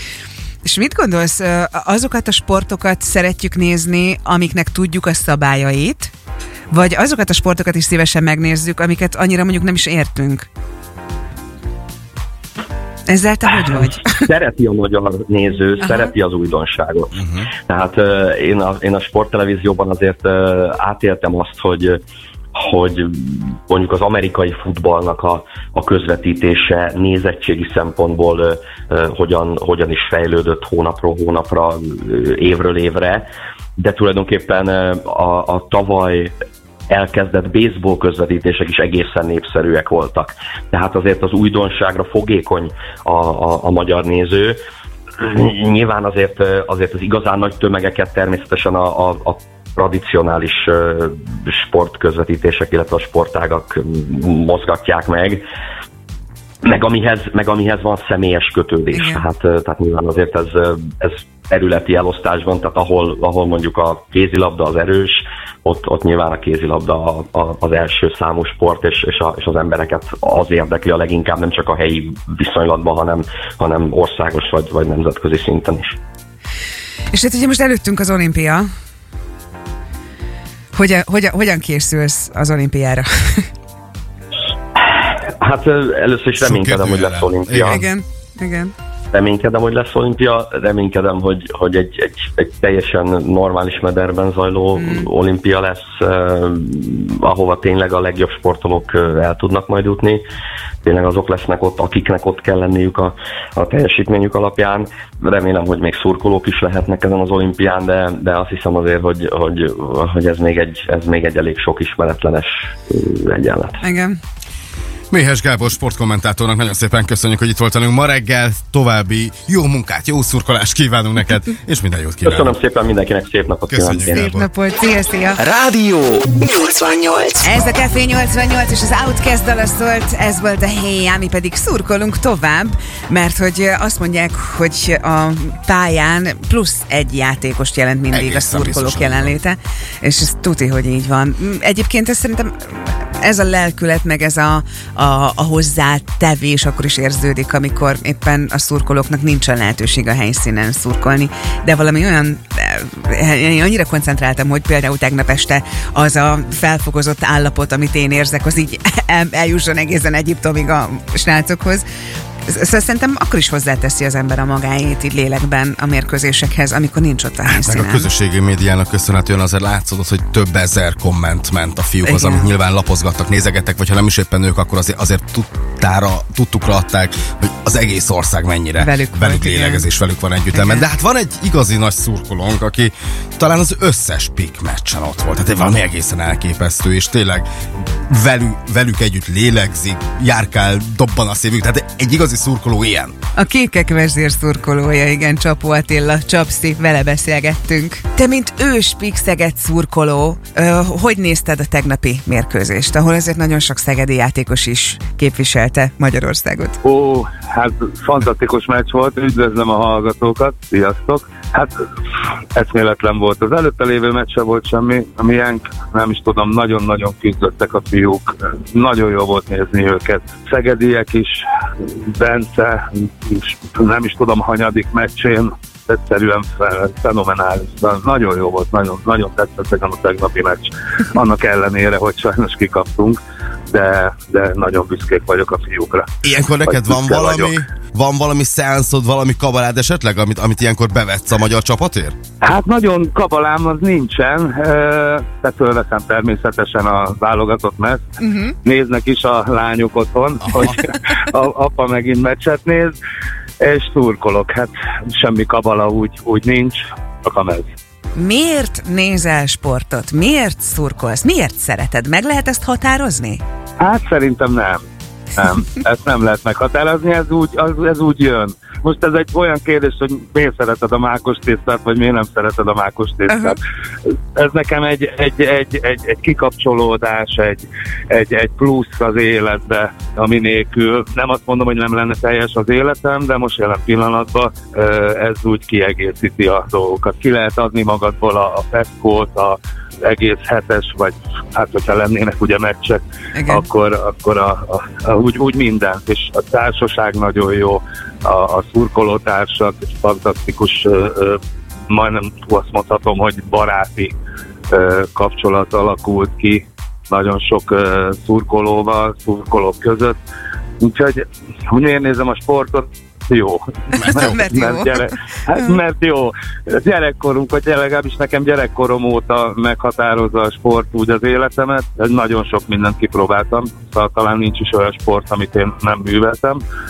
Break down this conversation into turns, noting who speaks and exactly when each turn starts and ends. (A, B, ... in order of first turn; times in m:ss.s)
0:00.6-0:06.1 A
0:06.7-0:10.5 A
0:13.1-0:14.3 A
0:13.7-0:22.0 B
0:15.8-0:16.1 A
0:22.5-0:36.3 B
0:36.9-0:44.6 B
0:45.2-0:55.4 B
0:56.6-1:16.0 B
0:58.9-0:59.2 A
1:17.1-1:18.7 A
1:20.7-1:23.5 A
1:24.8-1:27.8 B
1:26.4-1:27.8 C
1:27.6-1:28.7 A
1:29.1-1:40.2 B
1:34.8-1:35.1 A
1:40.8-1:53.8 B
1:53.8-1:54.2 A
1:55.1-2:02.5 C
2:02.2-2:04.3 B
2:03.7-2:04.5 C
2:04.1-2:05.4 A
2:05.4-2:07.5 D
2:07.4-2:41.8 A
2:18.1-2:19.3 C
2:42.4-2:48.1 A
2:47.5-3:07.4 C
2:52.0-2:52.5 A
2:58.8-2:59.8 A
3:00.5-3:00.9 A
3:08.0-3:13.1 C
3:13.4-3:26.8 A
3:26.8-3:31.8 E
3:32.5-3:53.2 E
3:53.7-3:56.1 E
3:56.2-4:02.2 C
3:56.6-3:57.6 E
4:02.4-4:08.0 E
4:08.2-4:08.5 A
4:08.6-4:12.9 E
4:10.4-4:10.8 C
4:13.6-4:17.7 E
4:18.2-4:23.4 A
4:23.8-4:24.8 E
4:25.4-4:33.6 E
4:33.3-4:33.6 A
4:34.3-5:04.1 E
4:53.3-4:53.6 A
5:04.7-5:10.2 E
5:10.8-5:26.6 E
5:13.9-5:15.7 A
5:14.0-5:14.4 C